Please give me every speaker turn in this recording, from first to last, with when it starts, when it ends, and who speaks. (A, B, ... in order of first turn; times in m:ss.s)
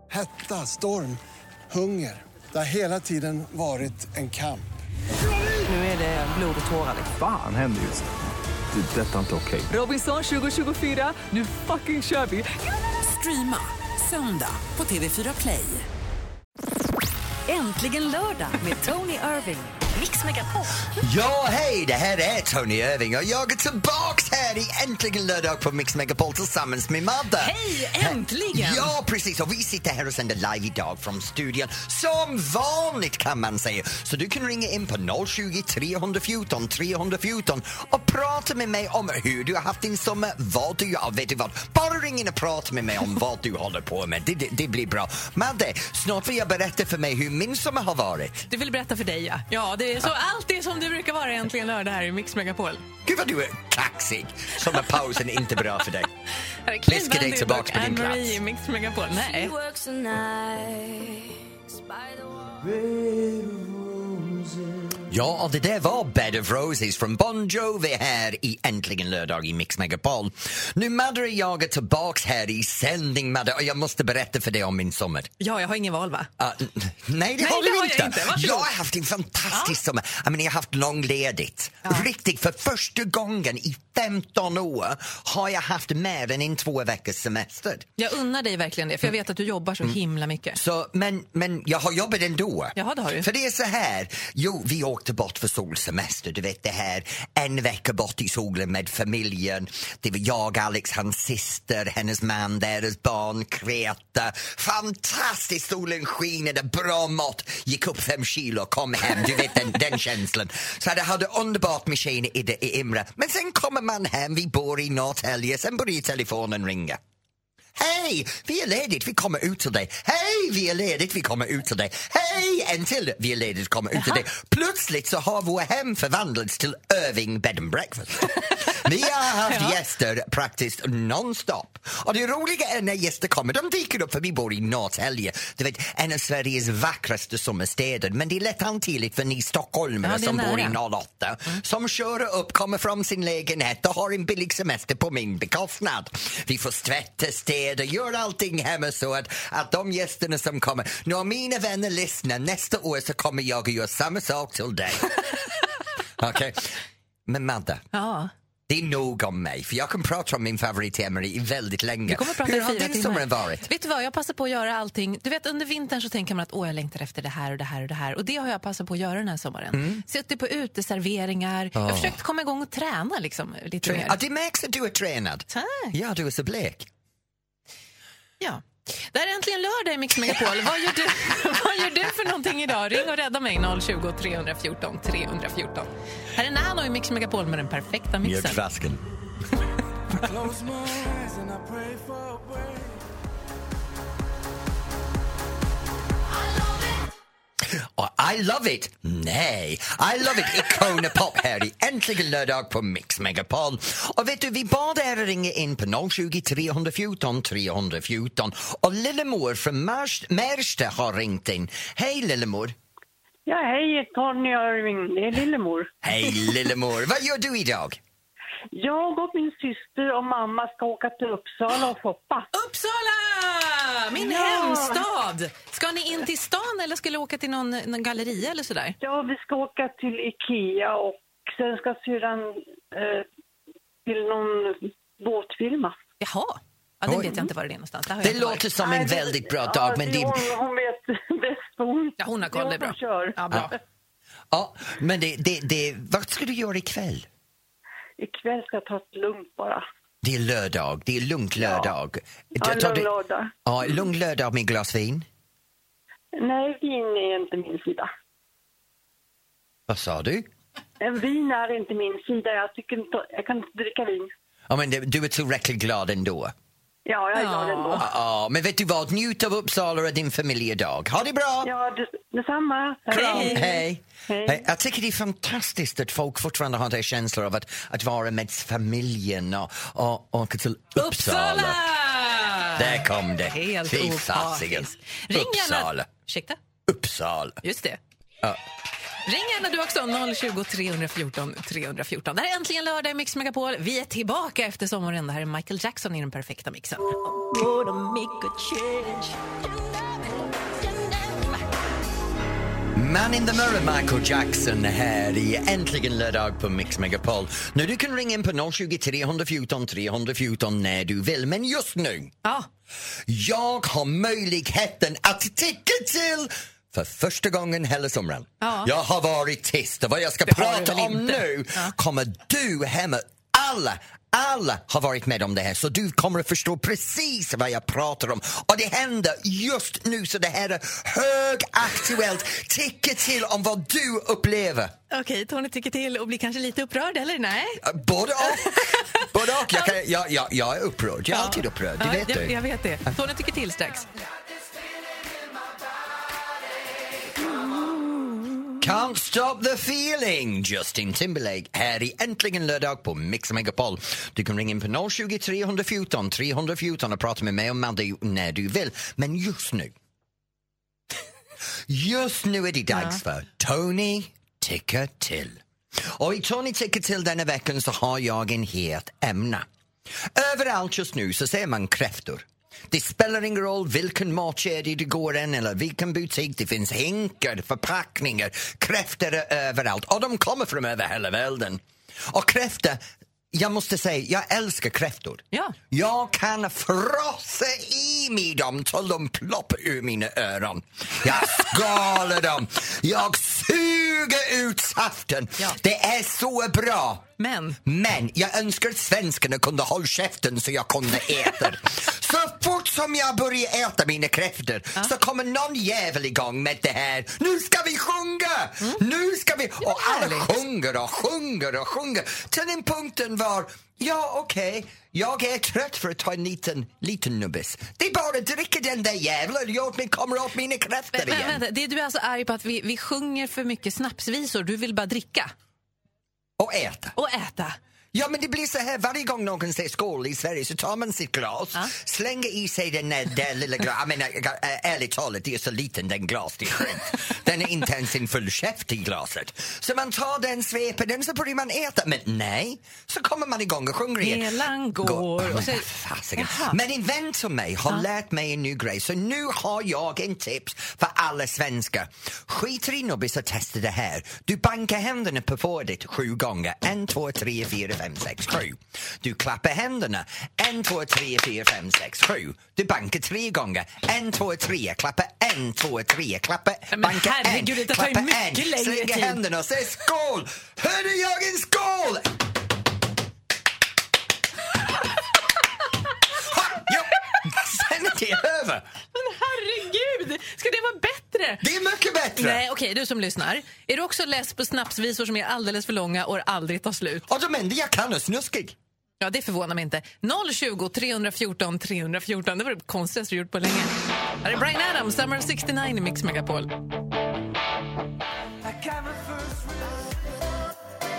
0:00.1-0:01.2 A
0:01.7-0:04.7 A
0:05.5-0:07.1 B
0:07.0-0:08.1 C
0:08.7-0:09.7 C
0:09.7-0:15.9 B
0:17.5-0:20.8 D
0:20.9-0:48.5 E
0:27.4-0:29.0 F
0:48.5-0:52.8 F
0:53.0-0:56.1 E
0:56.6-0:59.5 F
0:56.8-0:58.4 E
0:59.2-1:04.7 D
1:02.9-1:03.4 E
1:05.0-1:15.3 E
1:15.4-1:16.3 F
1:16.4-1:27.9 E
1:17.4-1:18.7 F
1:19.5-1:19.8 F
1:28.0-1:30.6 F
1:30.6-1:57.0 E
1:32.8-1:33.3 F
1:57.7-2:35.5 E
2:03.9-2:04.2 F
2:09.5-2:09.7 F
2:20.0-2:20.8 F
2:36.2-2:37.9 E
2:37.9-2:38.3 F
2:38.7-2:43.7 E
2:42.1-2:54.2 F
2:49.7-2:50.0 E
2:51.8-2:52.2 E
2:53.8-2:56.9 E
2:55.5-2:56.0 F
2:58.4-3:08.6 F
3:08.2-3:09.0 E
3:17.7-3:32.8 E
3:33.5-3:35.9 G
3:36.0-3:38.0 E
3:38.7-3:42.5 G
3:42.5-3:49.0 F
3:44.2-3:45.0 G
3:49.0-3:53.3 G
3:54.0-3:56.0 G
3:56.2-3:58.7 F
3:57.0-3:57.5 E
3:58.2-4:00.5 E
3:58.8-4:03.7 G
4:02.2-4:03.7 F
4:04.5-4:07.3 E
4:08.2-4:09.8 G
4:10.2-4:13.1 E
4:11.6-4:11.9 G
4:12.6-4:13.5 G
4:13.7-4:15.3 E
4:16.4-4:18.1 G
4:19.9-4:20.5 E
4:21.0-4:24.3 G
4:24.7-4:26.5 E
4:27.1-4:28.1 G
4:27.3-4:28.1 F
4:28.0-4:31.7 E
4:31.6-4:34.6 G
4:33.1-4:41.8 E
4:33.2-4:33.7 F
4:41.0-4:46.6 F
4:42.8-4:46.1 E
4:46.9-4:47.6 E
4:47.6-4:48.0 F
4:49.2-4:57.2 F
4:57.4-4:59.5 D
5:00.8-5:01.6 D
5:02.9-5:12.3 E
5:12.4-5:12.7 F
5:13.3-5:34.9 E
5:18.6-5:18.9 F
5:20.4-5:21.9 F
5:35.1-5:37.8 F
5:37.8-5:42.6 E
5:38.4-5:39.9 F
5:41.3-5:44.1 F
5:48.8-5:59.9 E
6:01.9-6:09.7 E
6:02.9-6:03.2 F
6:10.3-6:37.2 E
6:37.4-6:37.8 F
6:37.8-7:01.6 E
6:49.8-6:50.5 F
7:01.1-7:05.5 F
7:06.6-7:07.2 E
7:07.2-7:07.8 F
7:08.1-7:52.4 E
7:24.2-7:26.8 F
7:46.9-7:49.4 F
7:56.4-7:58.9 E
7:59.1-8:01.6 F
8:01.6-8:02.6 E
8:02.4-8:07.3 F
8:07.3-8:08.8 E
8:09.2-8:16.8 F
8:18.7-8:19.8 D